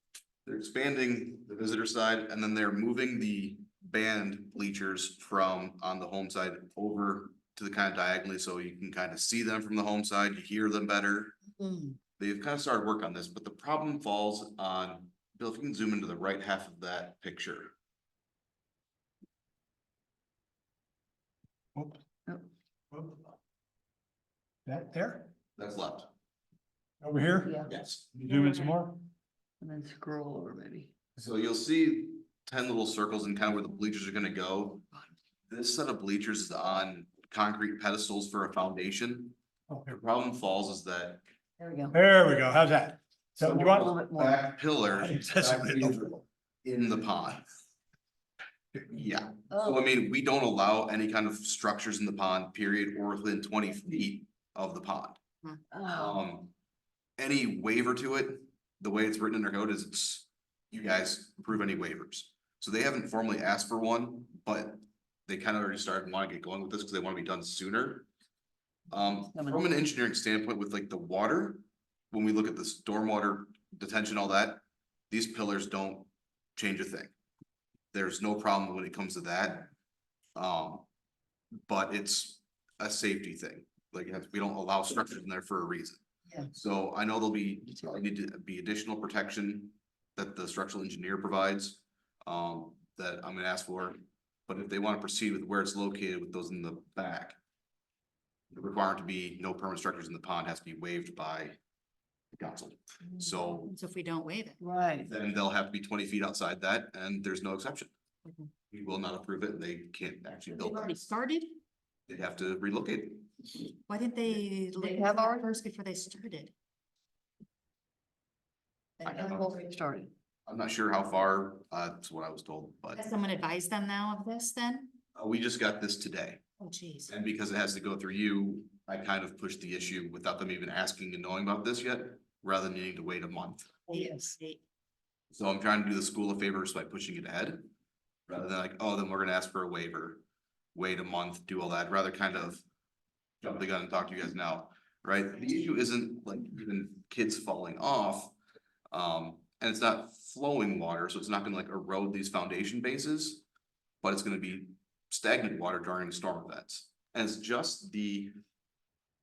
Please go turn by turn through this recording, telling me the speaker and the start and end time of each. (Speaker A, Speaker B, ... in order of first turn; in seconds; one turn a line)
Speaker A: 0.5-11.4
Speaker B: 11.5-12.0
Speaker A: 12.2-17.7
Speaker C: 21.8-22.0
Speaker C: 22.9-23.2
Speaker C: 24.7-25.3
Speaker A: 25.6-26.1
Speaker C: 27.0-27.6
Speaker D: 27.4-27.7
Speaker A: 27.7-28.0
Speaker C: 28.1-29.0
Speaker D: 29.6-30.9
Speaker A: 31.2-34.9
Speaker A: 35.5-39.3
Speaker C: 39.7-39.9
Speaker A: 39.9-41.2
Speaker D: 41.6-42.0
Speaker C: 41.9-43.9
Speaker D: 43.4-44.5
Speaker A: 43.5-47.5
Speaker C: 44.9-46.1
Speaker A: 48.9-55.2
Speaker D: 49.5-49.9
Speaker D: 55.7-56.2
Speaker A: 55.9-56.5
Speaker A: 57.2-68.1
Speaker A: 68.9-77.1
Speaker D: 69.3-69.7
Speaker A: 77.9-79.7
Speaker A: 80.3-80.8
Speaker A: 81.7-86.0
Speaker A: 86.5-97.3
Speaker A: 98.5-101.6
Speaker A: 102.3-103.7
Speaker B: 103.2-104.6
Speaker D: 104.6-105.1
Speaker A: 105.0-107.9
Speaker A: 108.7-111.0
Speaker B: 110.5-111.5
Speaker A: 112.1-113.3
Speaker B: 113.9-116.5
Speaker D: 114.7-115.5
Speaker D: 119.0-120.1
Speaker A: 119.0-119.5
Speaker A: 120.5-123.0
Speaker B: 123.0-125.0
Speaker A: 125.2-126.4
Speaker B: 126.6-127.1
Speaker A: 127.1-133.8
Speaker B: 133.9-134.6
Speaker D: 133.9-134.3
Speaker A: 135.3-137.7
Speaker A: 138.3-140.2
Speaker A: 140.7-142.6
Speaker A: 143.4-148.3
Speaker A: 148.9-153.4
Speaker A: 154.0-158.4